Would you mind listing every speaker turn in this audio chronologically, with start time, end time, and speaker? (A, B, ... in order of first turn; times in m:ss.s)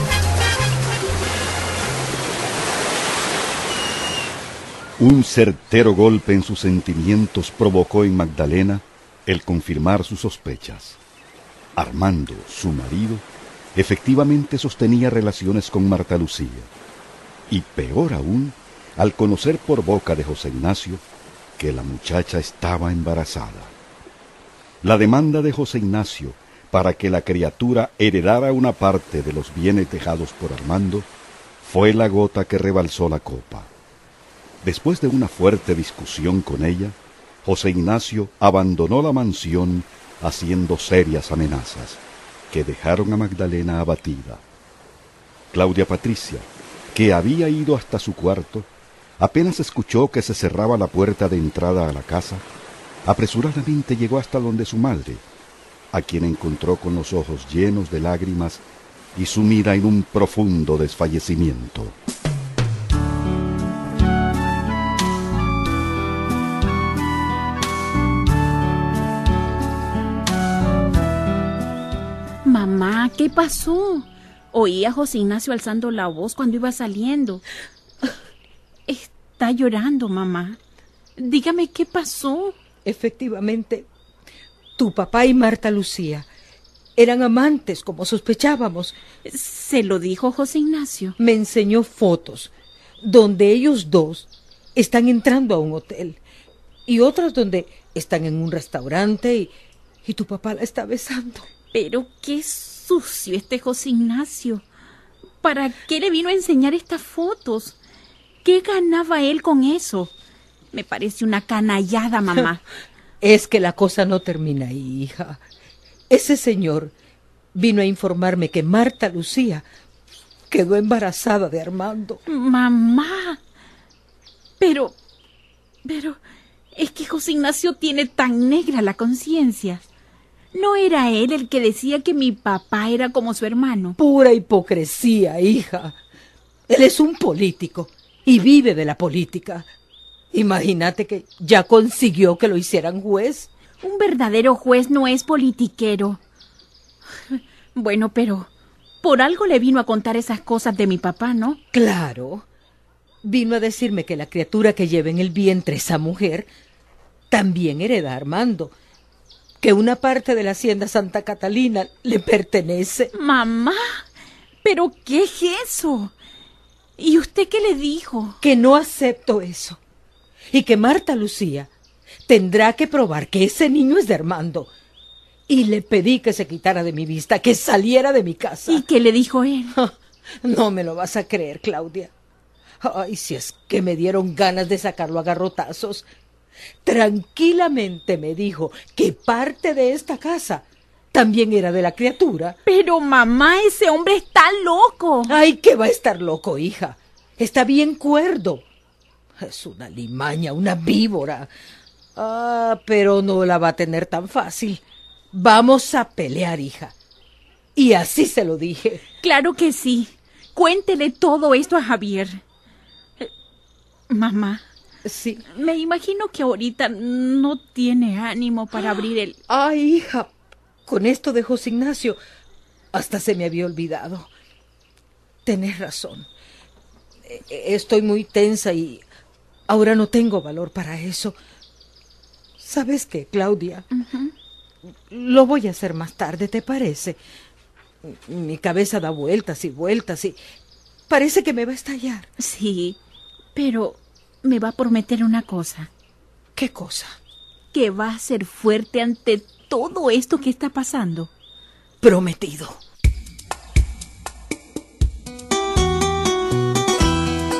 0:05.0-0:11.0 A
0:11.8-0:16.7 A
0:17.5-0:21.0 A
0:21.6-0:23.7 A
0:24.8-0:31.1 A
0:31.6-0:33.7 A
0:34.6-0:44.4 A
0:45.5-0:52.4 A
0:53.0-0:55.2 A
0:55.9-0:58.6 A
0:59.2-1:02.0 A
1:12.4-1:17.4 B
1:18.9-1:20.6 B
1:21.2-1:22.6 B
1:22.8-1:23.9 C
1:24.8-1:26.3 C
1:27.0-1:28.9 C
1:29.2-1:31.2 B
1:31.2-1:32.5 C
1:33.0-1:36.2 C
1:36.9-1:39.5 C
1:40.0-1:41.5 C
1:41.7-1:44.6 B
1:45.4-1:47.8 B
1:48.4-1:50.1 B
1:50.7-1:52.6 B
1:53.2-1:55.4 C
1:56.1-1:56.9 C
1:57.6-1:59.6 C
2:00.5-2:02.2 C
2:02.3-2:03.4 B
2:04.6-2:05.0 B
2:05.8-2:06.2 B
2:06.7-2:09.8 B
2:10.5-2:14.0 B
2:14.0-2:16.0 C
2:16.7-2:19.7 C
2:20.3-2:23.5 C
2:23.8-2:26.2 B
2:27.3-2:28.5 B
2:29.0-2:31.6 B
2:31.7-2:32.4 C
2:33.2-2:36.5 C
2:37.3-2:38.7 C
2:39.6-2:43.1 C
2:43.2-2:44.0 B
2:44.6-2:46.1 B
2:47.0-2:48.4 B
2:48.4-2:49.8 C
2:50.5-2:51.7 C
2:52.3-2:54.7 C
2:55.5-2:58.8 C
2:58.7-2:59.8 B
2:59.7-3:02.1 C
3:02.8-3:06.0 C
3:06.8-3:12.6 C
3:12.6-3:15.3 B
3:15.3-3:18.6 C
3:19.4-3:21.5 C
3:22.2-3:24.8 C
3:25.3-3:26.9 C
3:27.8-3:29.0 C
3:29.2-3:32.4 B
3:34.1-3:34.6 B
3:35.0-3:35.4 C
3:35.5-3:39.4 B
3:39.5-3:40.3 C
3:40.9-3:42.2 C
3:42.9-3:44.3 C
3:45.4-3:46.3 C
3:47.2-3:49.0 C
3:49.7-3:51.4 C
3:52.6-3:53.8 C
3:53.9-3:54.3 B
3:55.1-3:57.2 C
3:58.0-4:00.4 C
4:01.1-4:02.3 C
4:02.4-4:03.0 B
4:03.6-4:05.9 B
4:06.6-4:07.1 C
4:07.7-4:11.3 B
4:12.0-4:12.8 C